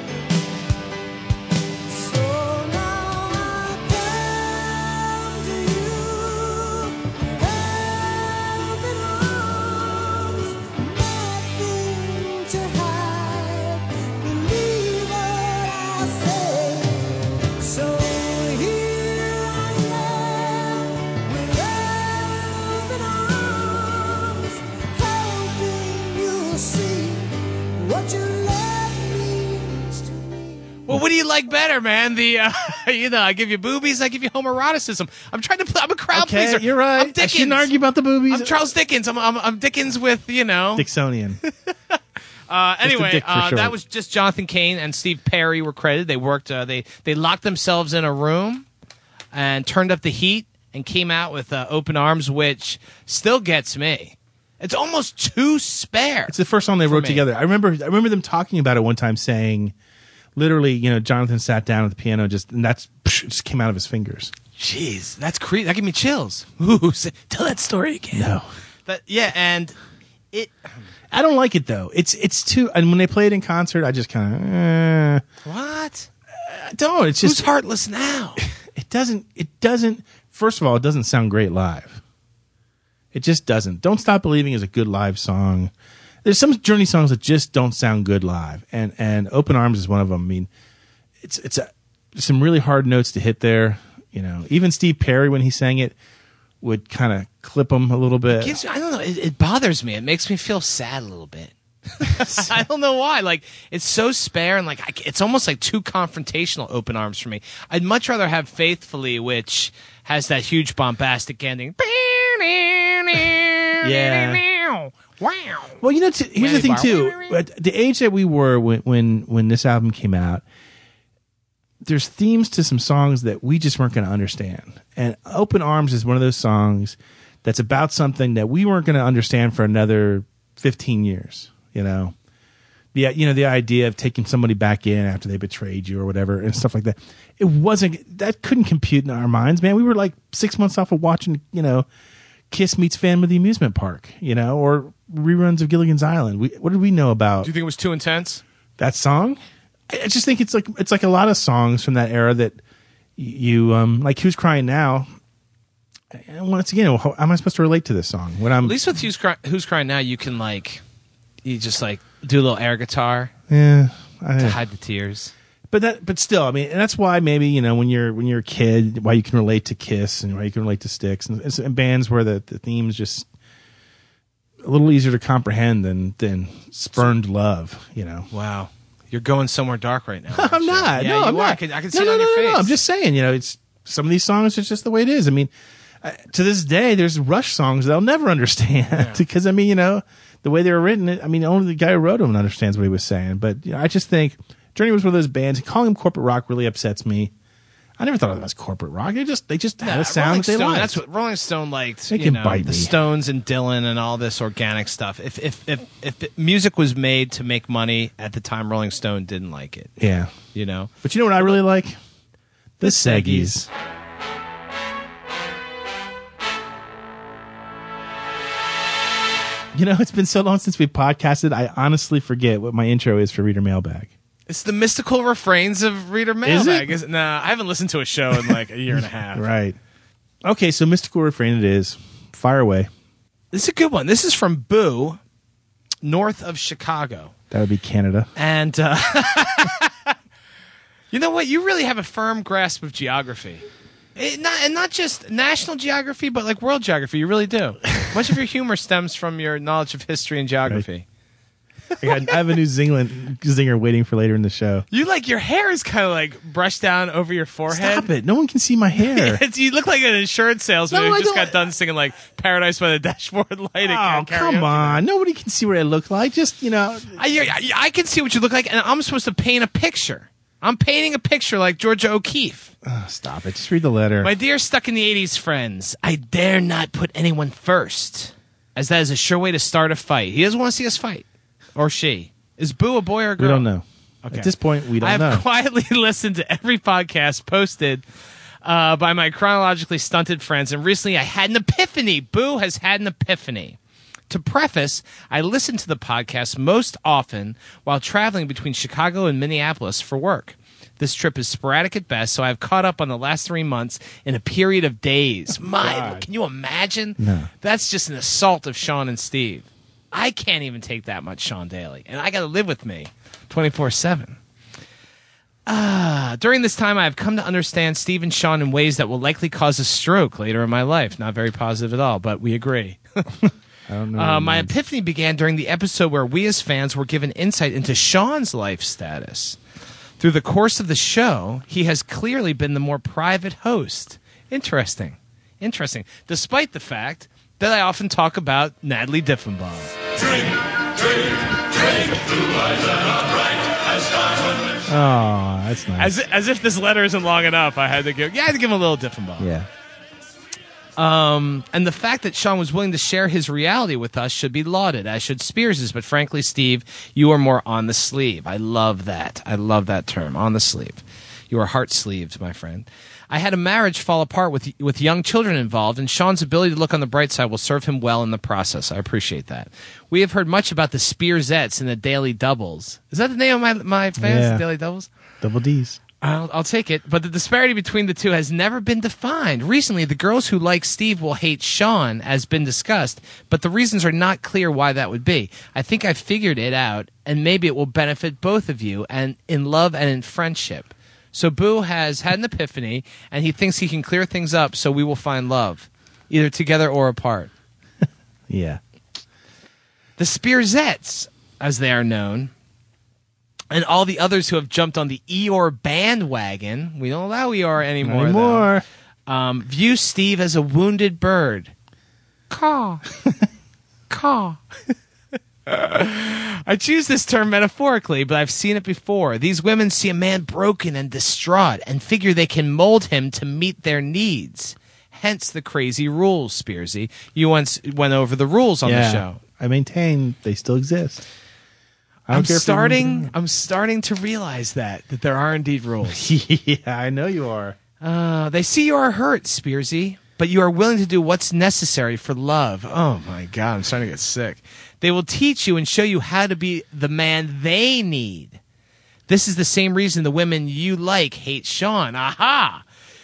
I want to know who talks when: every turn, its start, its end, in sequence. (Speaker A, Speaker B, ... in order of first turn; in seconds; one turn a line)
Speaker A: 1.9-30.7
Speaker B: 30.9-37.7
Speaker C: 36.1-38.5
Speaker B: 38.3-40.8
Speaker C: 40.8-41.4
Speaker B: 41.4-41.7
Speaker B: 42.5-48.6
Speaker C: 42.8-43.7
Speaker B: 49.3-57.2
Speaker C: 56.3-59.7
Speaker C: 60.4-64.3
Speaker B: 64.5-68.3
Speaker C: 68.1-68.5
Speaker B: 68.9-69.8
Speaker B: 70.3-70.7
Speaker C: 71.1-75.2
Speaker B: 75.4-76.1
Speaker C: 76.4-77.4
Speaker B: 77.2-78.4
Speaker C: 78.7-82.0
Speaker C: 83.1-85.7
Speaker C: 86.2-90.5
Speaker C: 91.2-95.9
Speaker C: 96.6-98.5
Speaker B: 98.3-115.8
Speaker C: 102.1-102.6
Speaker C: 113.8-114.4
Speaker C: 115.8-120.4
Speaker B: 116.4-117.4
Speaker C: 121.8-132.1
Speaker C: 132.9-141.8
Speaker C: 142.5-147.5
Speaker B: 147.4-148.4
Speaker C: 148.8-149.4
Speaker C: 149.9-152.6
Speaker C: 153.2-155.1
Speaker C: 156.1-158.8
Speaker B: 158.6-160.8
Speaker B: 161.4-163.3
Speaker C: 163.5-164.6
Speaker B: 164.4-165.3
Speaker C: 165.7-173.3
Speaker C: 174.6-178.3
Speaker B: 178.3-182.7
Speaker C: 180.3-185.5
Speaker C: 186.0-197.3
Speaker B: 188.9-189.2
Speaker C: 198.0-201.0
Speaker B: 199.8-210.0
Speaker C: 202.1-202.9
Speaker C: 210.0-210.3
Speaker B: 210.5-211.6
Speaker C: 211.0-211.9
Speaker B: 212.8-213.7
Speaker C: 212.8-213.7
Speaker C: 219.7-224.1
Speaker B: 224.5-229.4
Speaker C: 226.4-226.9
Speaker C: 228.5-229.8
Speaker C: 230.4-232.9
Speaker B: 233.5-235.2
Speaker B: 236.0-237.3
Speaker C: 237.5-238.3
Speaker B: 238.3-240.1
Speaker B: 241.1-243.6
Speaker B: 244.2-251.0
Speaker C: 252.0-254.8
Speaker B: 252.1-252.5
Speaker B: 254.9-258.1
Speaker C: 257.7-259.4
Speaker B: 259.0-265.0
Speaker C: 260.9-261.6
Speaker C: 263.8-267.2
Speaker B: 267.2-272.7
Speaker C: 272.8-274.3
Speaker B: 274.2-283.6
Speaker C: 283.4-285.4
Speaker B: 284.2-288.0
Speaker B: 288.6-293.8
Speaker B: 294.3-314.4
Speaker C: 305.5-306.3
Speaker C: 307.2-307.5
Speaker B: 315.6-323.3
Speaker C: 323.9-324.7
Speaker B: 324.1-329.6
Speaker B: 330.2-339.9
Speaker B: 341.0-344.3
Speaker C: 344.9-346.1
Speaker B: 346.0-349.5
Speaker C: 349.4-349.7
Speaker B: 351.0-375.1
Speaker C: 374.2-374.6
Speaker C: 375.4-376.0
Speaker B: 376.2-397.5
Speaker C: 398.5-398.8
Speaker B: 400.2-402.5
Speaker B: 403.7-408.7
Speaker C: 408.0-408.8
Speaker B: 409.3-411.7
Speaker B: 412.5-413.0
Speaker B: 414.1-414.6
Speaker B: 415.7-429.4
Speaker C: 428.8-431.2
Speaker C: 432.3-433.3
Speaker B: 432.3-436.2
Speaker C: 436.1-437.8
Speaker B: 438.0-448.6
Speaker B: 449.3-452.8